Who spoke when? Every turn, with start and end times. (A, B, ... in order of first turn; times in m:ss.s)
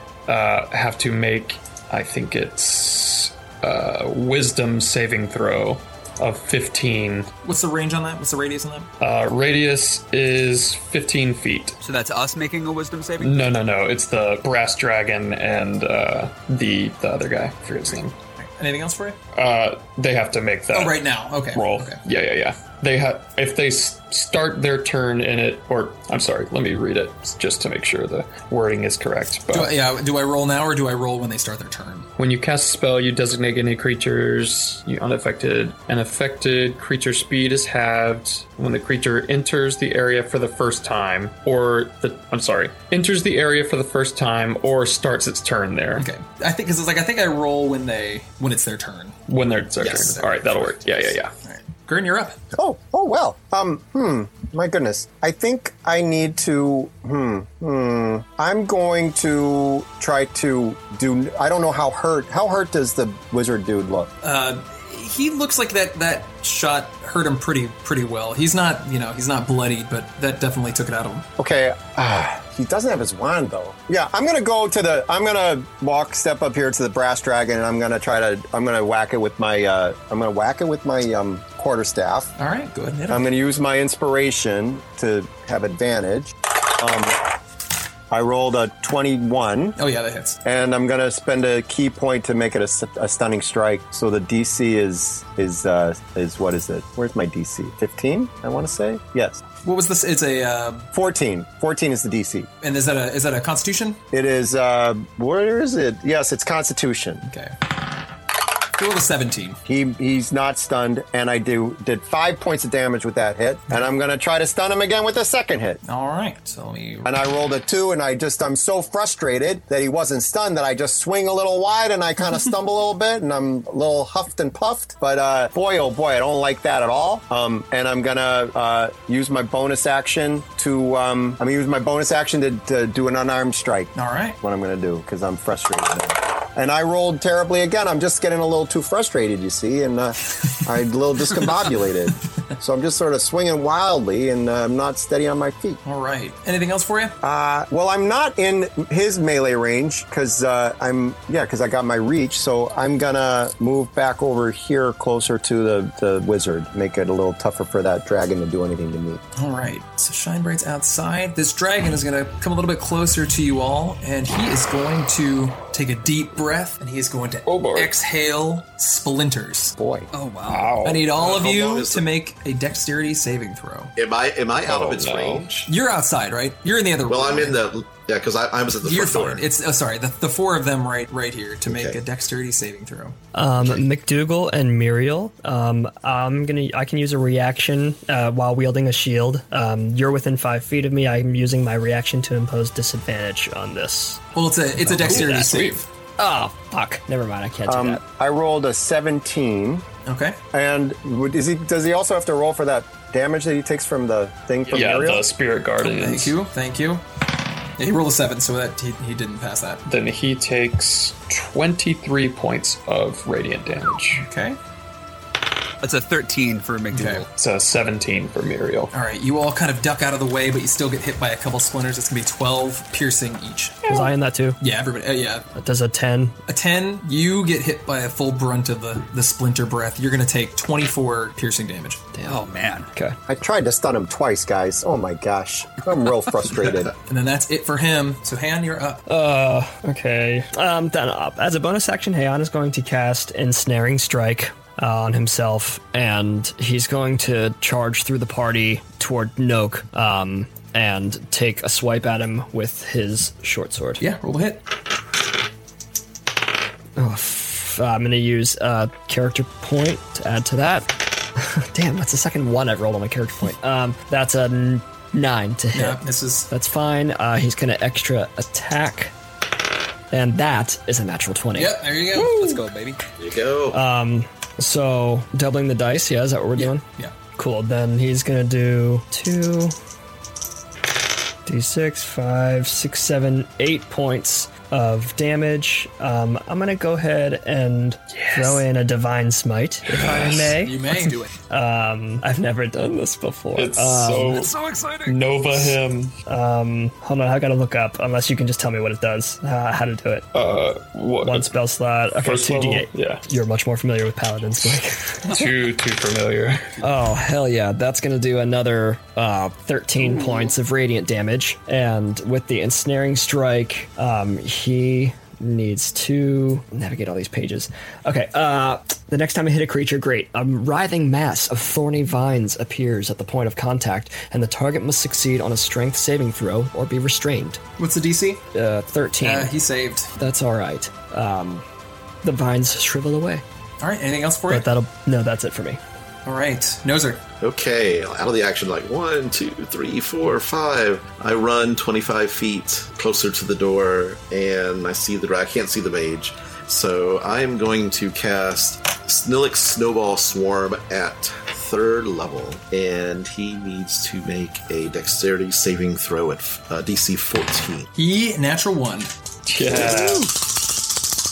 0:00.3-0:07.3 A
0:07.4-0:08.9 B
0:09.0-0:11.8 A
0:11.8-0:13.5 C
0:13.2-0:18.2 A
0:17.9-0:19.2 B
0:19.3-0:29.8 A
0:20.7-0:22.0 B
0:29.5-0:32.1 B
0:32.2-0:46.1 A
0:46.0-0:49.2 B
0:49.3-0:51.3 A
0:49.8-0:52.4 B
0:52.5-1:04.1 D
1:04.2-1:11.3 B
1:11.4-1:22.3 D
1:22.4-1:23.3 B
1:23.1-1:27.2 D
1:28.1-1:29.8 D
1:29.8-1:30.4 B
1:30.4-1:39.4 D
1:39.6-1:40.9 B
1:40.9-1:42.5 D
1:42.6-1:44.0 B
1:44.1-1:47.2 D
1:47.2-1:47.5 B
1:48.7-1:49.6 B
1:49.6-1:55.8 D
1:55.8-1:57.1 B
1:57.0-2:25.8 D
2:13.9-2:14.4 B
2:25.8-2:27.2 B
2:27.2-2:39.2 D
2:39.3-2:49.8 B
2:47.4-2:47.9 A
2:49.8-2:50.1 D
2:50.1-2:50.8 C
2:50.4-2:51.1 A
2:50.8-2:53.9 B
2:51.1-2:52.1 E
2:54.0-2:55.7 E
2:54.6-2:55.7 A
2:55.7-2:57.6 B
2:57.0-2:59.4 E
2:58.8-3:03.2 B
3:01.7-3:02.0 E
3:03.3-3:14.2 F
3:14.3-3:15.8 B
3:14.8-3:15.5 F
3:14.9-3:15.8 A
3:16.2-3:18.0 F
3:17.7-3:19.8 D
3:20.0-3:20.4 B
3:20.5-3:25.3 D
3:24.7-3:26.4 A
3:25.8-3:27.0 B
3:27.8-3:29.8 B
3:29.8-3:34.3 A
3:34.2-3:34.6 B
3:35.8-3:37.2 C
3:36.9-3:37.2 B
3:37.3-3:38.9 A
3:38.9-3:44.1 B
3:43.8-3:44.6 F
3:44.6-3:45.5 B
3:45.5-3:46.4 F
3:46.5-3:52.0 B
3:52.1-3:52.4 F
3:52.2-3:52.9 C
3:53.3-3:56.9 D
3:57.0-3:59.0 B
3:59.1-4:14.0 F
4:14.0-4:14.6 B
4:17.0-4:29.1 F
4:25.7-4:26.5 B
4:30.1-4:32.4 F
4:31.5-4:32.6 B
4:32.2-4:33.0 C
4:33.2-4:33.8 E
4:33.7-4:39.7 F
4:36.6-4:37.1 B
4:41.4-4:54.4 F
4:48.1-4:48.6 A
4:49.8-4:50.6 A
4:50.1-4:51.3 B
4:53.5-4:54.5 A
4:54.3-4:55.7 C
4:55.0-4:56.1 A
4:56.3-5:00.3 F
5:00.3-5:01.6 A
5:01.2-5:05.4 F
5:02.2-5:03.2 A
5:05.3-5:06.8 A
5:06.8-5:27.6 F
5:27.8-5:28.4 B
5:28.5-5:29.5 F
5:29.2-5:30.1 B
5:30.2-5:31.6 F
5:32.2-5:33.4 F
5:33.8-5:34.7 B
5:34.5-5:35.8 F
5:36.2-5:37.2 B
5:37.4-5:57.9 E
5:57.9-5:59.1 B
5:59.4-6:00.3 A
5:59.7-6:00.1 E